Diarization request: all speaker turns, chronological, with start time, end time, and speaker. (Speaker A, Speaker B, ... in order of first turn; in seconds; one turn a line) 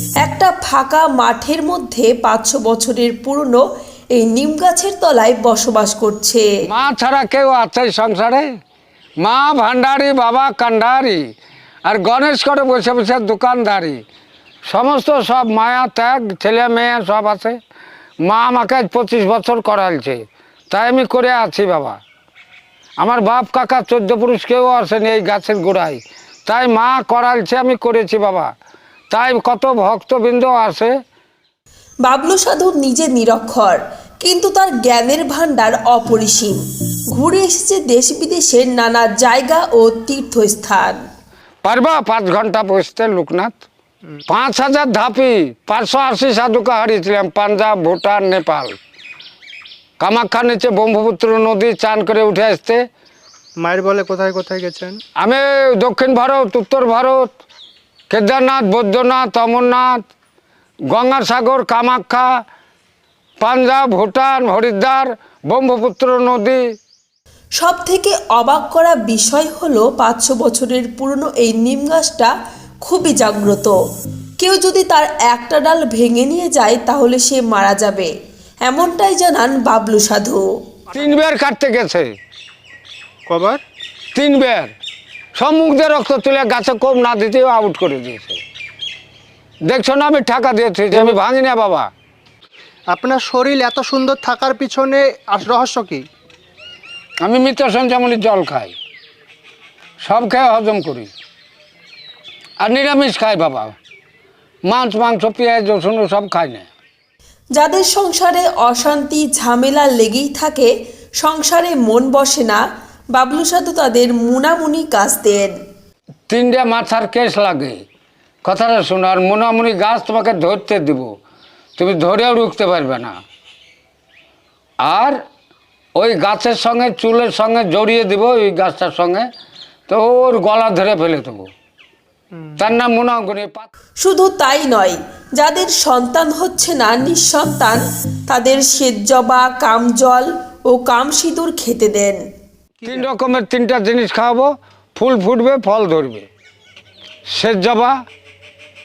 Speaker A: 0.2-3.6
Speaker A: 4.2-6.5
Speaker B: 6.7-8.4
Speaker B: 9.2-11.2
Speaker B: 11.8-14.0
Speaker B: 14.7-17.6
Speaker B: 18.2-20.2
Speaker B: 20.7-22.0
Speaker B: 23.0-28.5
Speaker B: 29.1-30.9
Speaker A: 32.0-36.6
Speaker A: 37.1-41.0
Speaker B: 41.6-43.5
Speaker B: 44.3-48.8
Speaker B: 50.0-52.8
Speaker C: 53.6-55.0
Speaker B: 55.2-57.3
Speaker B: 58.1-60.0
Speaker B: 60.9-62.3
Speaker B: 63.4-66.6
Speaker A: 67.6-72.3
Speaker A: 72.8-73.8
Speaker A: 74.4-78.1
Speaker A: 78.7-80.4
Speaker B: 80.9-82.1
Speaker C: 83.3-83.6
Speaker B: 84.1-84.7
Speaker B: 85.4-88.4
Speaker B: 89.7-91.9
Speaker C: 92.9-96.1
Speaker B: 97.2-98.7
Speaker B: 100.0-101.1
Speaker B: 102.6-103.7
Speaker B: 104.7-106.7
Speaker A: 107.5-112.6
Speaker A: 113.1-115.5
Speaker B: 116.3-117.8
Speaker B: 118.4-121.1
Speaker B: 121.8-123.2
Speaker B: 124.8-125.2
Speaker B: 126.0-129.3
Speaker B: 129.9-131.5
Speaker B: 132.6-133.7
Speaker A: 134.0-142.2
Speaker C: 142.8-143.1
Speaker B: 142.8-146.3
Speaker B: 147.3-148.0